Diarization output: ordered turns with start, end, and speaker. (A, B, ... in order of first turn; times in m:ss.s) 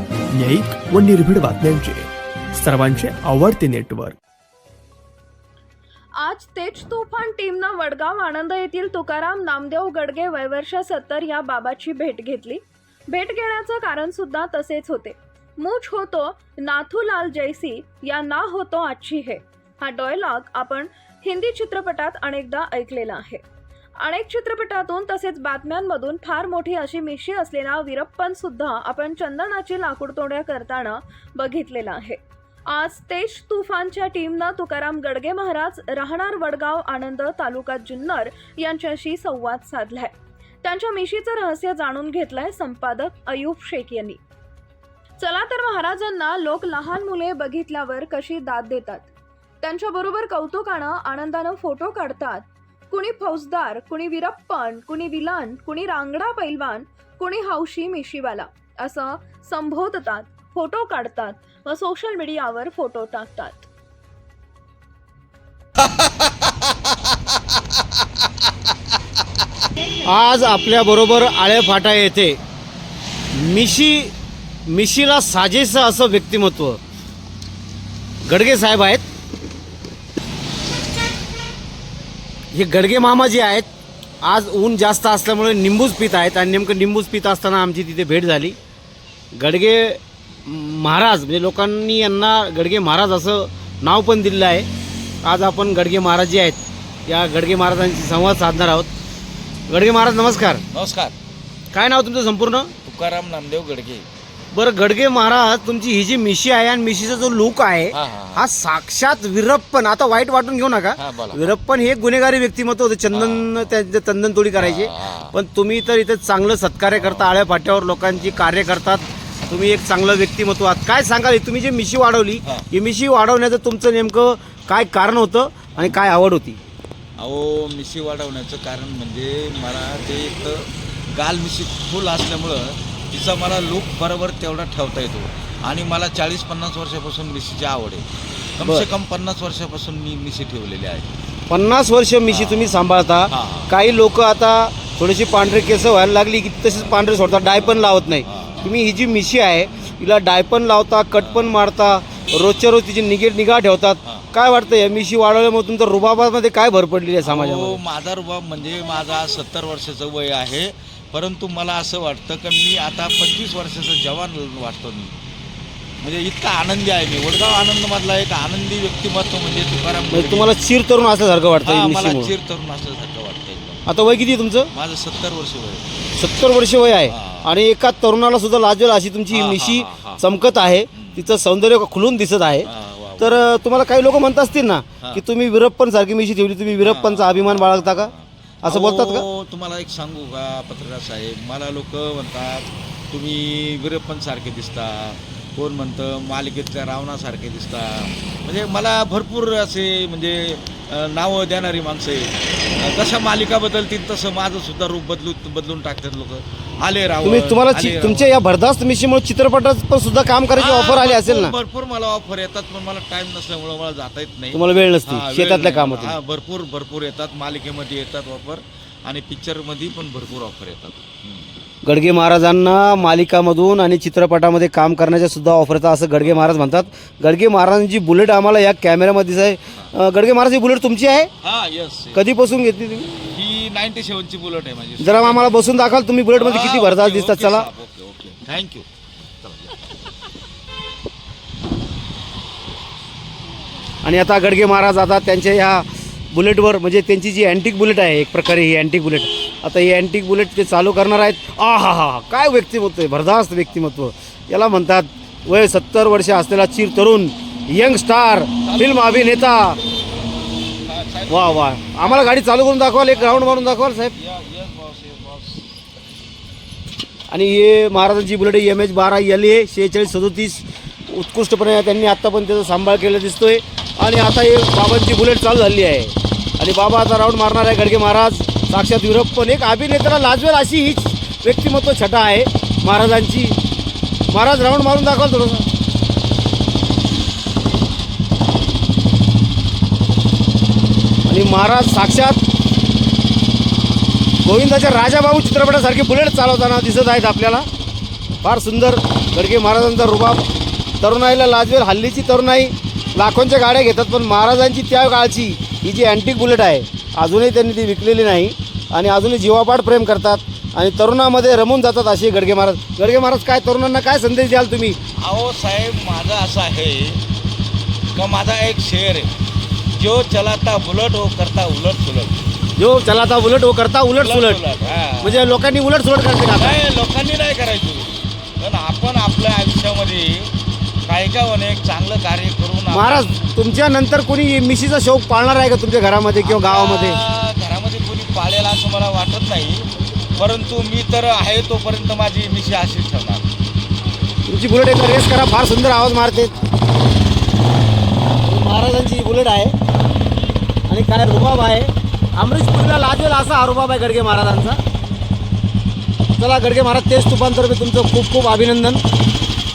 0:00.4-0:04.2 A
0:06.2-0:23.4 B
0:24.0-0:44.2 B
0:45.2-0:49.1 B
0:49.6-1:03.7 B
1:10.0-1:12.4 C
1:13.4-1:14.1 C
1:14.7-1:16.8 C
1:18.2-1:19.0 C
1:22.5-1:23.7 C
1:24.2-1:28.6 C
1:29.3-1:34.7 C
1:35.2-1:38.9 C
1:39.7-1:40.6 C
1:40.7-1:41.2 D
1:41.7-1:42.7 C
1:42.8-1:44.1 D
1:44.5-2:06.6 C
1:47.9-1:48.5 D
1:51.0-1:51.5 D
1:53.1-1:53.6 D
1:54.6-1:55.3 D
1:56.9-1:57.3 D
2:07.2-2:21.1 D
2:21.5-2:37.8 C
2:22.3-2:23.8 D
2:27.6-2:28.7 D
2:31.2-2:31.6 D
2:34.0-2:34.3 D
2:37.2-2:45.2 D
2:46.0-2:50.5 D
2:50.1-2:52.3 C
2:51.6-2:53.9 D
2:53.9-2:54.7 C
2:54.7-2:55.9 D
2:56.2-3:02.7 C
2:57.1-2:57.5 D
2:59.3-3:00.2 D
3:00.9-3:01.3 D
3:02.6-3:03.4 D
3:03.2-3:08.1 C
3:06.8-3:28.4 D
3:08.6-3:09.3 C
3:27.2-3:31.5 C
3:30.6-3:41.5 D
3:34.5-3:36.2 C
3:41.8-3:51.3 C
3:46.2-3:46.7 D
3:51.4-3:52.2 D
3:52.1-3:53.2 C
3:53.3-3:55.6 D
3:55.0-3:57.7 C
3:56.4-3:58.9 D
3:59.4-3:59.8 D
4:04.0-4:19.8 C
4:18.6-4:19.0 D
4:20.8-4:22.3 D
4:21.3-4:24.1 C
4:23.1-4:25.9 D
4:27.3-4:43.6 C
4:44.3-4:45.7 C
4:51.3-4:52.4 C
4:54.4-4:57.7 C
4:58.4-5:00.5 C
5:01.0-5:15.0 C
5:15.2-5:17.2 D
5:18.1-5:19.3 D
5:20.0-5:22.4 D
5:22.8-5:24.6 C
5:24.2-5:25.5 D
5:25.2-5:26.8 C
5:26.6-5:33.3 D
5:32.9-5:37.2 C
5:36.4-5:43.5 D
5:44.5-5:46.5 C
5:48.4-5:49.8 C
5:50.9-5:54.8 C
5:56.4-5:59.0 C